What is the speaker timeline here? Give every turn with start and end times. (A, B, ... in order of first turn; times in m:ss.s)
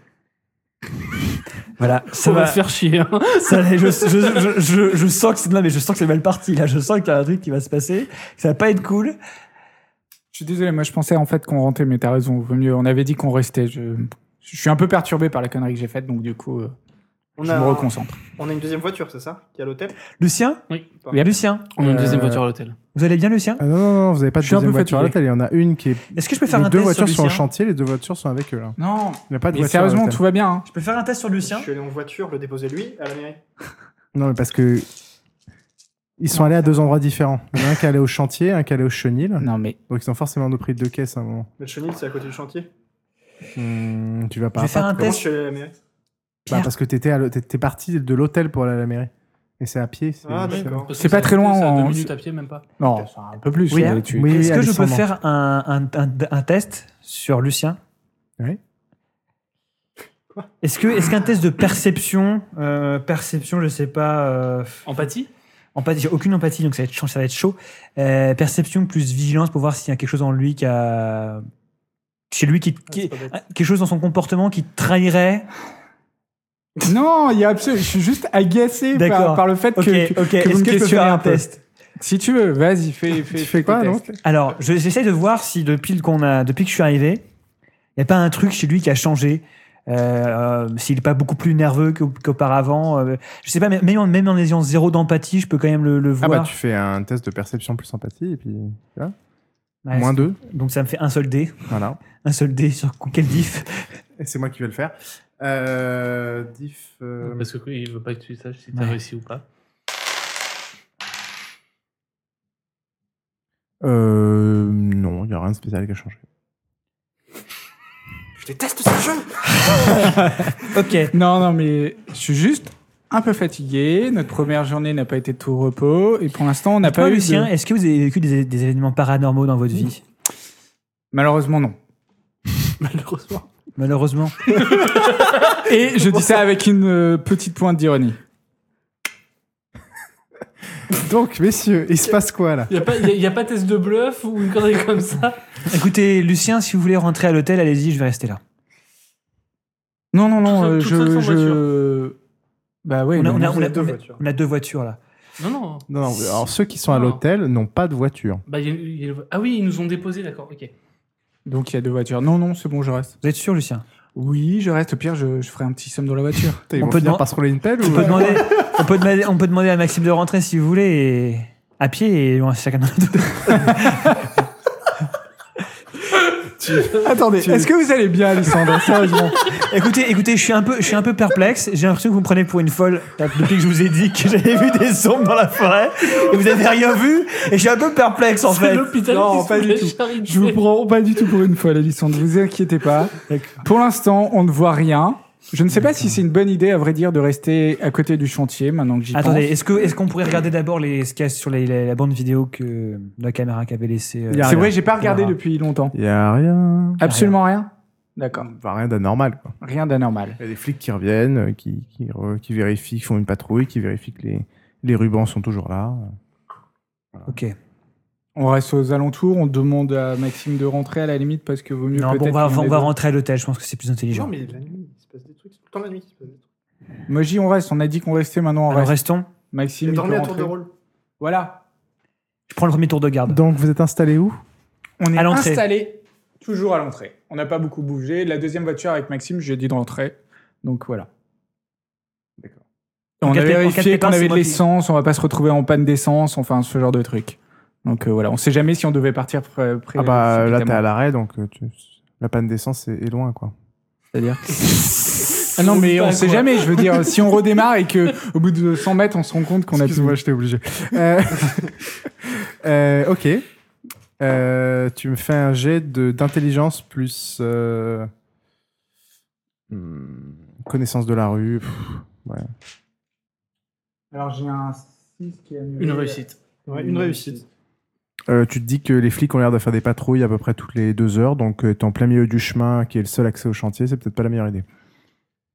0:01.8-0:02.6 A
0:02.1-0:04.2 B
0:03.3-0:09.2 A
0:10.3-0:16.7 C
0:17.4-0:20.0 D
0:17.4-0:18.2 C
0:20.2-0:20.6 A
0:21.1-0:21.7 A
0:21.1-0:22.4 C
0:21.7-0:22.8 B
0:22.9-0:23.6 A
0:23.6-0:28.8 E
0:24.4-0:25.2 C
0:26.1-0:27.4 A
0:28.8-0:30.6 C
0:29.3-0:30.2 E
0:30.6-0:31.7 A
0:31.4-0:33.4 D
0:34.1-0:34.9 E
0:36.2-0:41.5 E
0:39.4-0:39.8 C
0:41.6-0:42.7 D
0:43.6-0:45.2 E
0:44.5-0:45.3 A
0:44.9-0:45.7 D
0:46.4-0:46.7 A
0:46.5-0:50.9 E
0:50.2-0:50.9 D
0:50.4-0:52.7 B
0:50.9-0:52.1 C
0:52.8-0:54.3 C
0:53.7-0:57.8 A
0:53.9-0:55.1 E
1:00.6-1:04.9 A
1:04.8-1:05.3 B
1:05.7-1:11.4 A
1:12.3-1:15.5 A
1:12.9-1:13.3 D
1:16.8-1:21.4 C
1:18.9-1:21.6 A
1:22.0-1:24.0 C
1:23.3-1:24.2 E
1:24.2-1:27.2 A
1:28.0-1:36.5 A
1:36.2-1:39.1 E
1:39.8-1:43.9 A
1:39.9-1:40.4 E
1:41.7-1:42.0 E
1:44.2-1:47.5 E
1:47.2-1:49.4 B
1:53.8-1:56.2 E
1:58.6-1:59.0 D
1:58.7-1:59.2 C
1:59.6-2:01.1 A
1:59.9-2:00.4 C
2:01.1-2:07.5 C
2:06.8-2:10.0 A
2:11.1-2:11.8 C
2:12.8-2:13.4 B
2:13.8-2:14.4 A
2:14.4-2:15.6 B
2:15.5-2:18.2 C
2:20.9-2:22.7 E
2:22.7-2:25.4 B
2:25.7-2:28.4 A
2:30.1-2:32.2 C
2:30.4-2:31.6 B
2:32.8-2:33.9 C
2:33.1-2:35.0 A
2:33.4-2:34.2 D
2:35.4-2:35.8 B
2:35.9-2:38.4 E
2:36.9-2:37.2 B
2:38.5-2:40.7 B
2:41.4-2:43.2 C
2:43.2-2:43.8 A
2:44.2-2:46.6 C
2:46.7-2:48.4 E
2:46.8-2:47.2 A
2:47.8-2:54.2 A
2:56.6-2:57.7 E
2:56.9-2:59.4 C
2:59.4-3:08.9 A
3:08.4-3:10.6 B
3:09.1-3:19.6 C
3:13.3-3:13.6 A
3:15.7-3:16.2 A
3:19.1-3:25.3 A
3:24.3-3:24.8 E
3:24.4-3:25.9 C
3:25.9-3:27.0 E
3:27.0-3:28.5 C
3:27.0-3:27.4 A
3:28.3-3:29.5 E
3:29.6-3:30.4 C
3:30.4-3:36.1 E
3:37.3-3:37.5 A
3:38.4-3:42.9 C
3:41.9-3:44.3 A
3:44.1-3:46.4 D
3:47.1-3:49.0 C
3:48.7-3:49.3 A
3:49.5-3:50.6 C
3:49.8-3:50.7 D
3:51.2-3:51.6 C
3:52.5-3:53.4 A
3:53.2-3:54.4 E
3:55.0-4:01.1 C
3:55.1-3:55.6 A
4:03.2-4:10.8 C
4:03.2-4:04.6 A
4:09.9-4:13.5 E
4:14.1-4:15.1 C
4:15.1-4:17.4 B
4:15.6-4:20.2 C
4:19.7-4:23.4 E
4:24.2-4:28.1 E
4:29.7-4:32.5 E
4:34.1-4:37.4 C
4:35.8-4:36.4 B
4:36.7-4:37.4 D
4:38.3-4:44.6 E